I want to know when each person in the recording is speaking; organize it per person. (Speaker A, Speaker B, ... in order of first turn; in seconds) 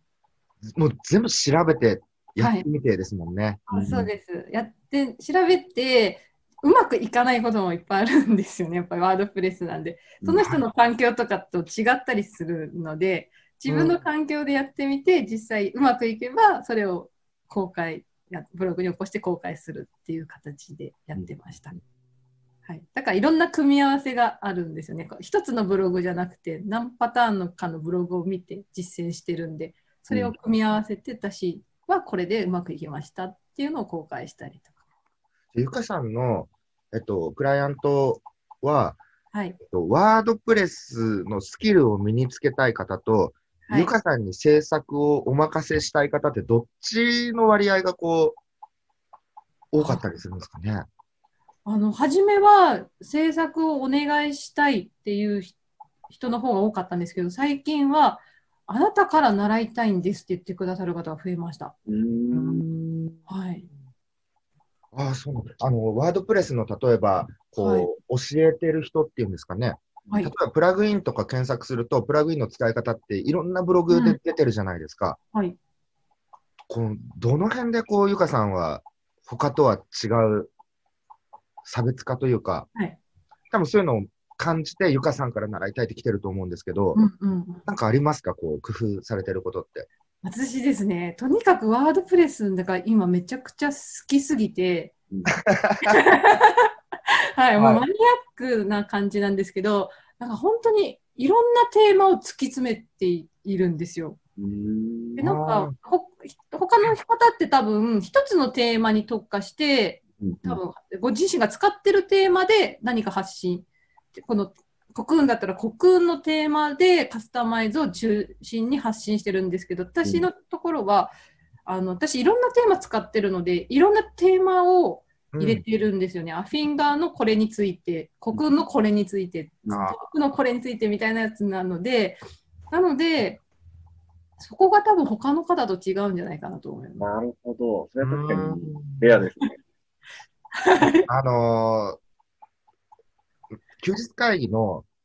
Speaker A: 0.6-3.7, 13.7-14.0, 35.5-39.0, 39.6-48.4, 49.7-50.9, 62.3-63.2, 64.9-75.2, 76.7-80.5, 81.7-82.7, 83.5-87.0, 87.7-89.9, 95.3-96.0, 97.6-97.8, 105.2-105.7, 125.3-125.6, 129.7-130.0, 138.0-139.2, 141.1-142.0, 143.8-144.9
Speaker B: 2.4-2.7, 3.7-21.8, 22.7-34.7, 39.3-39.6, 43.7-43.9, 49.8-50.1, 51.7-55.5, 56.1-61.7, 63.3-63.7, 67.6-67.9, 73.9-74.2, 87.0-87.7, 90.2-94.9, 95.8-104.2, 105.2-121.1, 121.7-132.2, 132.7-133.4, 134.4-137.1, 140.5-141.1
Speaker C: 3.7-4.1, 61.9-62.6, 104.4-105.2, 110.2-110.6, 137.0-139.6